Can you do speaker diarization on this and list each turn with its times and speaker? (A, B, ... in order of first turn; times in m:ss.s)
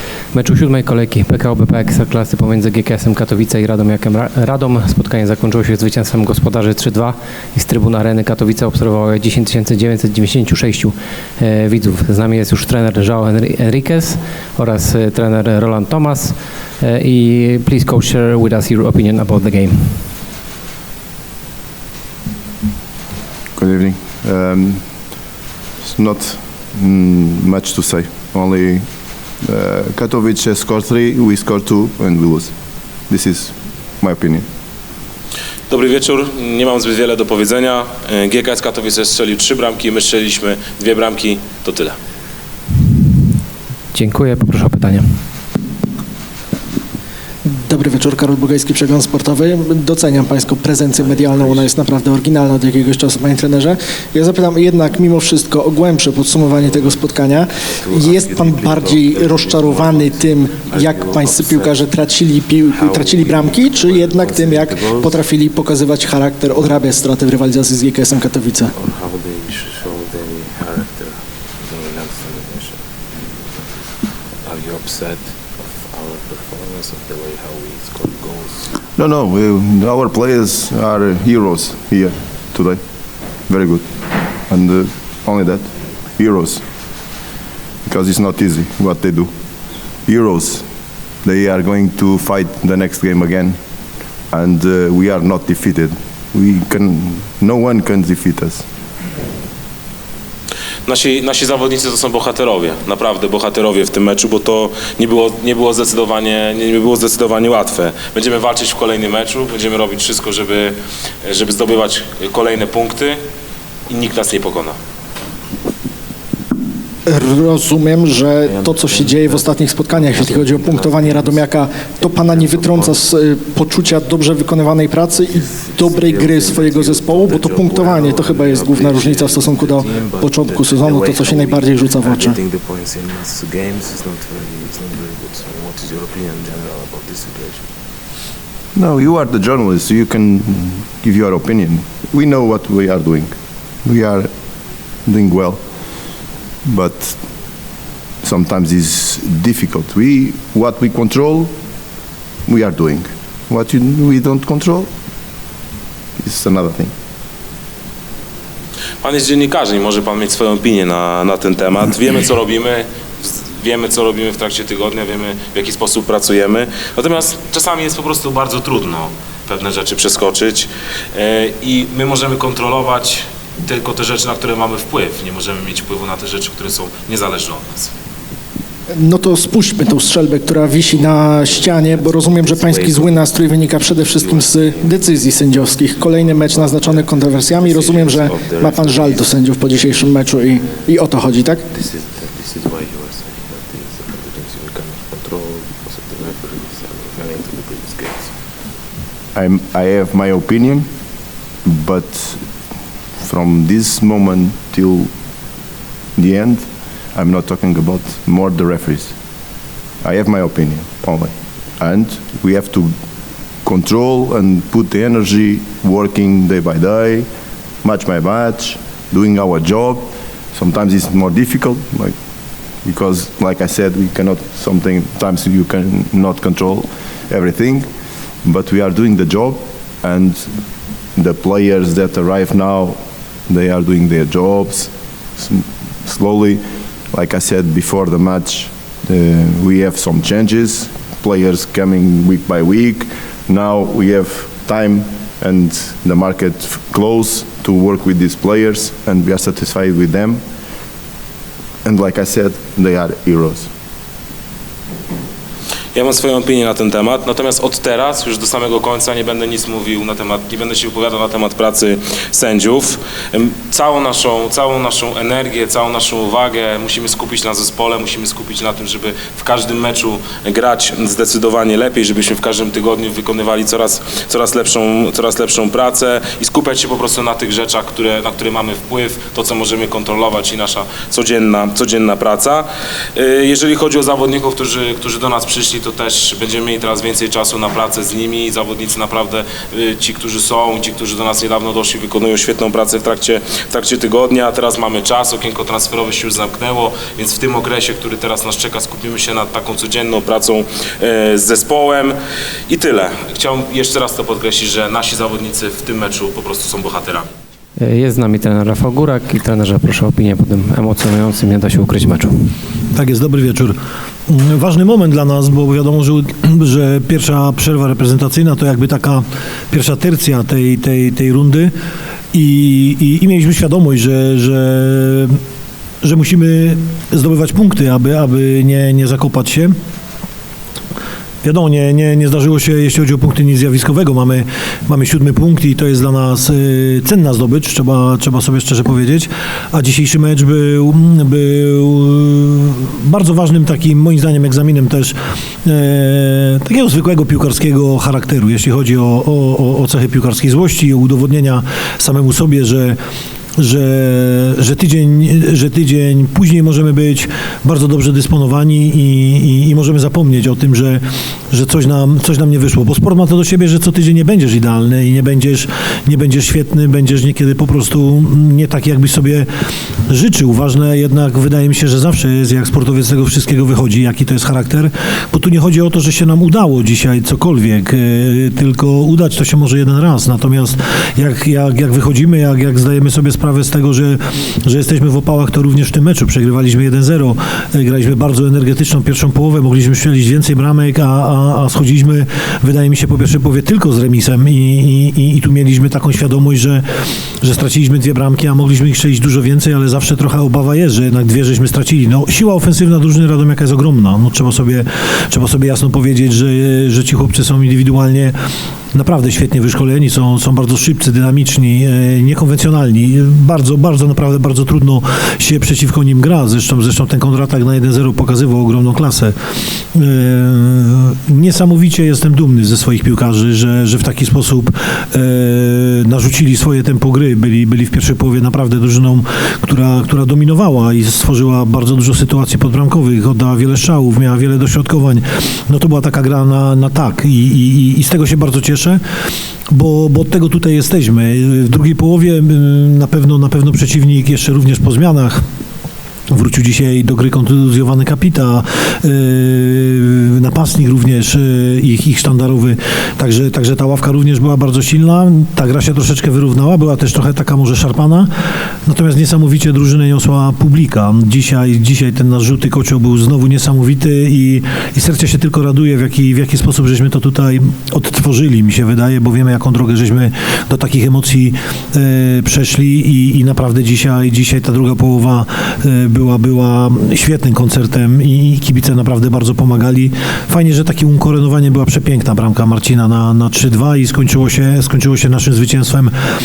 0:00.3-0:20.1 A
0:23.6-0:24.9 B
0:25.8-0:28.8 B
0:29.4-0:32.5 B
0:33.1-0:34.4 B
0:35.7-0:42.0 C
0:43.9-0:45.2 A
0:47.4-1:08.7 D
0:51.2-0:51.6 E
0:56.7-0:57.0 E
0:57.6-1:02.0 E
1:02.7-1:05.2 E
1:08.7-1:12.8 E
1:14.4-1:18.7 E
1:18.9-1:22.8 B
1:23.5-1:23.8 B
1:24.5-1:26.6 B
1:27.8-1:29.3 B
1:30.0-1:30.6 B
1:31.2-1:33.6 B
1:34.3-1:38.6 B
1:40.8-1:53.2 C
1:53.9-1:54.8 C
1:57.1-2:12.4 D
1:58.4-2:03.0 E
2:05.1-2:17.7 E
2:18.7-2:23.3 B
2:23.8-2:24.3 B
2:25.0-2:25.6 B
2:26.6-2:27.2 B
2:28.2-2:31.5 B
2:32.4-2:34.9 B
2:36.2-2:36.9 B
2:39.0-2:57.9 C
2:58.9-3:11.6 D
3:00.9-3:10.9 E
3:11.6-3:18.4 E
3:19.3-3:20.9 B
3:21.6-3:22.4 B
3:23.2-3:25.1 B
3:26.2-3:29.1 B
3:30.0-3:32.9 B
3:33.6-3:37.3 B
3:37.8-3:42.1 B
3:42.8-3:47.9 B
3:48.4-3:50.5 B
3:51.2-4:10.4 B
4:11.8-4:13.7 B
4:15.9-5:02.2 C
5:02.7-5:07.3 C
5:07.8-5:12.5 A
5:12.9-5:13.7 F
5:14.3-5:21.7 F
5:22.3-5:25.4 F
5:26.0-5:29.7 F
5:31.4-5:53.0 F
5:53.6-6:09.4 F
6:10.1-6:36.8 F
6:37.4-6:48.3 F
6:48.9-7:19.0 F
7:19.7-7:25.4 F
7:26.3-7:38.3 F
7:38.8-8:06.1 F